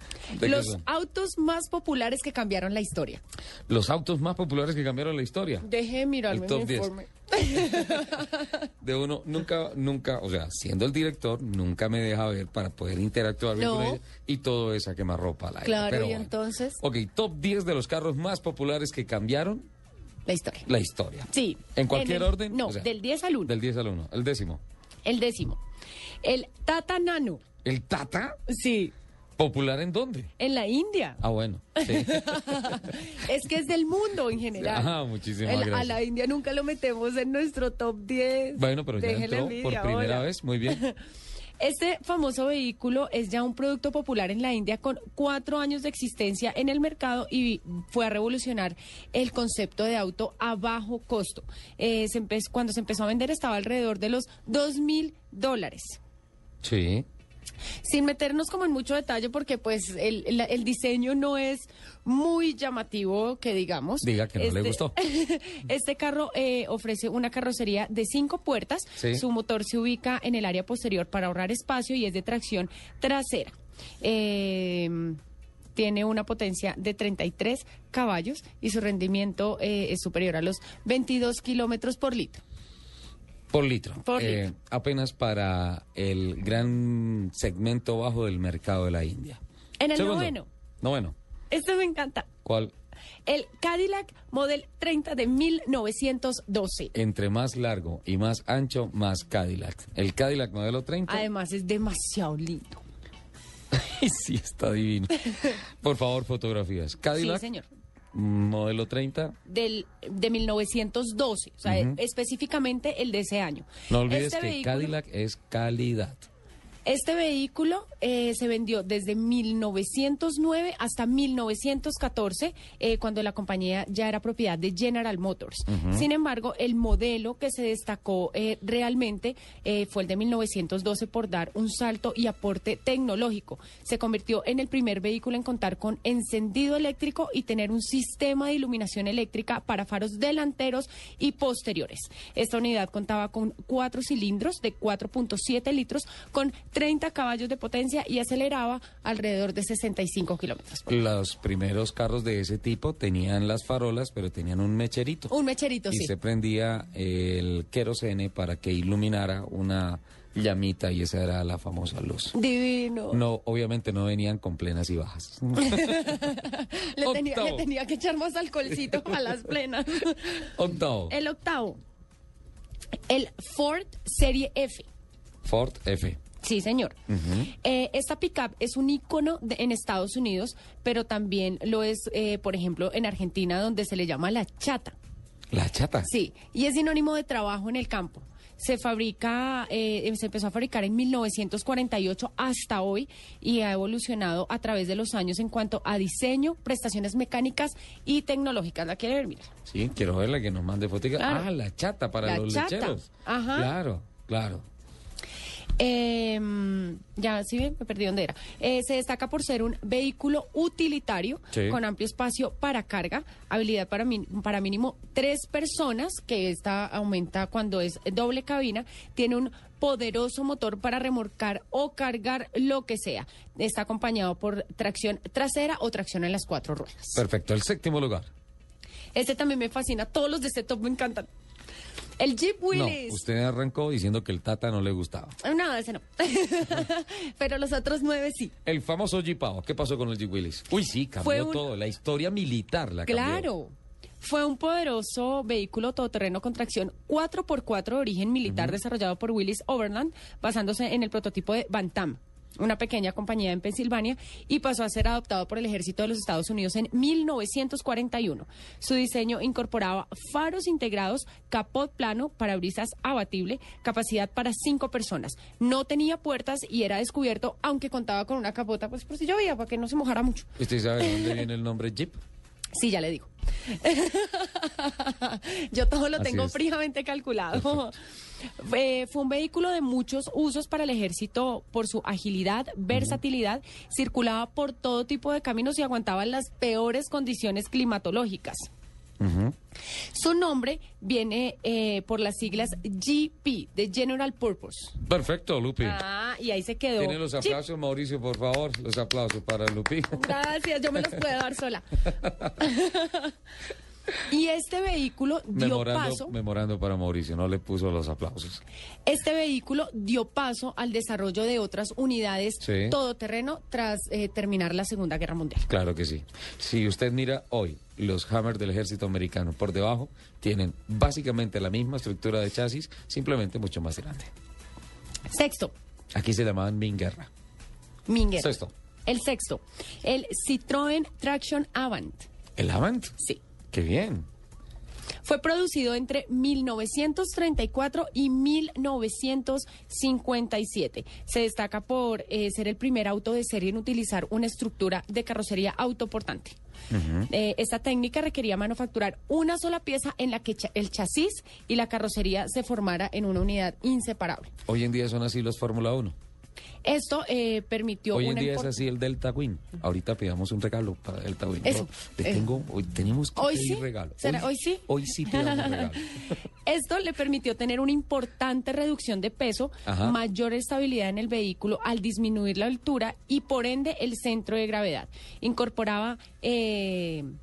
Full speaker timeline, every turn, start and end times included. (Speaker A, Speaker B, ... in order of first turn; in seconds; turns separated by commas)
Speaker A: 0.3-0.8, Speaker B: 0.4-3.2, Speaker A: 3.7-5.7, Speaker B: 5.6-8.5, Speaker A: 6.3-6.9, Speaker A: 7.8-8.2, Speaker A: 8.8-19.6, Speaker B: 13.6-14.0, Speaker B: 15.6-16.8, Speaker B: 20.3-20.7, Speaker A: 20.7-22.9, Speaker B: 21.3-23.5, Speaker A: 23.4-24.6, Speaker B: 25.1-25.6, Speaker B: 26.2-27.4, Speaker A: 27.6-28.4, Speaker B: 28.5-28.9, Speaker A: 29.4-30.3, Speaker B: 30.4-31.2, Speaker A: 31.2-33.0, Speaker B: 31.8-41.0, Speaker A: 34.5-36.0, Speaker A: 38.6-40.8, Speaker B: 41.6-56.0, Speaker A: 56.6-57.1, Speaker B: 57.8-75.2, Speaker A: 64.0-64.9, Speaker A: 69.0-69.2, Speaker B: 75.8-82.4, Speaker A: 83.5-89.4, Speaker B: 84.0-84.4, Speaker B: 89.8-90.5, Speaker A: 90.0-91.2, Speaker B: 91.5-92.3, Speaker A: 92.4-92.7, Speaker B: 93.3-96.9, Speaker A: 96.9-101.3, Speaker B: 101.1-102.8, Speaker A: 103.7-107.4, Speaker B: 107.1-107.7, Speaker A: 108.1-109.4, Speaker B: 109.5-114.9, Speaker A: 111.7-112.0, Speaker A: 113.9-116.3, Speaker B: 116.9-150.9, Speaker A: 125.7-126.1, Speaker A: 150.9-155.3, Speaker B: 155.3-156.1, Speaker A: 155.9-162.4, Speaker B: 162.3-163.2, Speaker A: 163.1-166.4, Speaker B: 165.6-170.5, Speaker A: 167.0-167.7, Speaker A: 170.6-171.2, Speaker B: 171.1-171.8, Speaker B: 173.1-174.9, Speaker A: 175.4-176.2, Speaker B: 176.4-176.9, Speaker A: 177.1-177.5, Speaker B: 177.5-185.0, Speaker A: 185.5-186.1, Speaker B: 186.0-199.5, Speaker A: 199.7-204.7, Speaker B: 201.2-201.5, Speaker B: 202.2-203.7, Speaker B: 205.8-227.2, Speaker A: 211.5-211.8, Speaker A: 227.2-228.3, Speaker B: 229.1-231.3, Speaker B: 232.2-233.2, Speaker A: 232.7-235.4, Speaker B: 235.4-238.5, Speaker A: 238.7-243.5, Speaker B: 241.2-241.7, Speaker B: 243.1-270.5, Speaker A: 248.4-248.8, Speaker A: 270.6-272.2, Speaker B: 271.0-271.4, Speaker B: 272.8-277.9, Speaker A: 276.2-276.6, Speaker B: 278.6-288.7, Speaker A: 282.9-283.2, Speaker A: 289.2-289.6, Speaker B: 290.1-295.0, Speaker A: 295.0-296.0, Speaker B: 295.8-297.6, Speaker A: 297.0-300.2, Speaker B: 300.1-302.0, Speaker A: 302.2-302.5, Speaker B: 302.6-303.3, Speaker B: 304.3-306.3, Speaker A: 305.5-308.6, Speaker B: 309.1-315.7, Speaker A: 312.6-313.0, Speaker A: 315.7-324.3, Speaker B: 325.3-325.7, Speaker A: 326.1-327.3, Speaker B: 328.1-332.3, Speaker A: 328.4-328.7, Speaker A: 332.6-333.1, Speaker A: 333.7-334.3, Speaker B: 335.2-346.6, Speaker A: 346.9-347.3, Speaker B: 347.3-354.5, Speaker A: 354.7-356.1, Speaker B: 356.8-358.8, Speaker A: 358.1-366.3, Speaker B: 361.6-362.5, Speaker B: 363.4-377.3, Speaker A: 369.9-370.2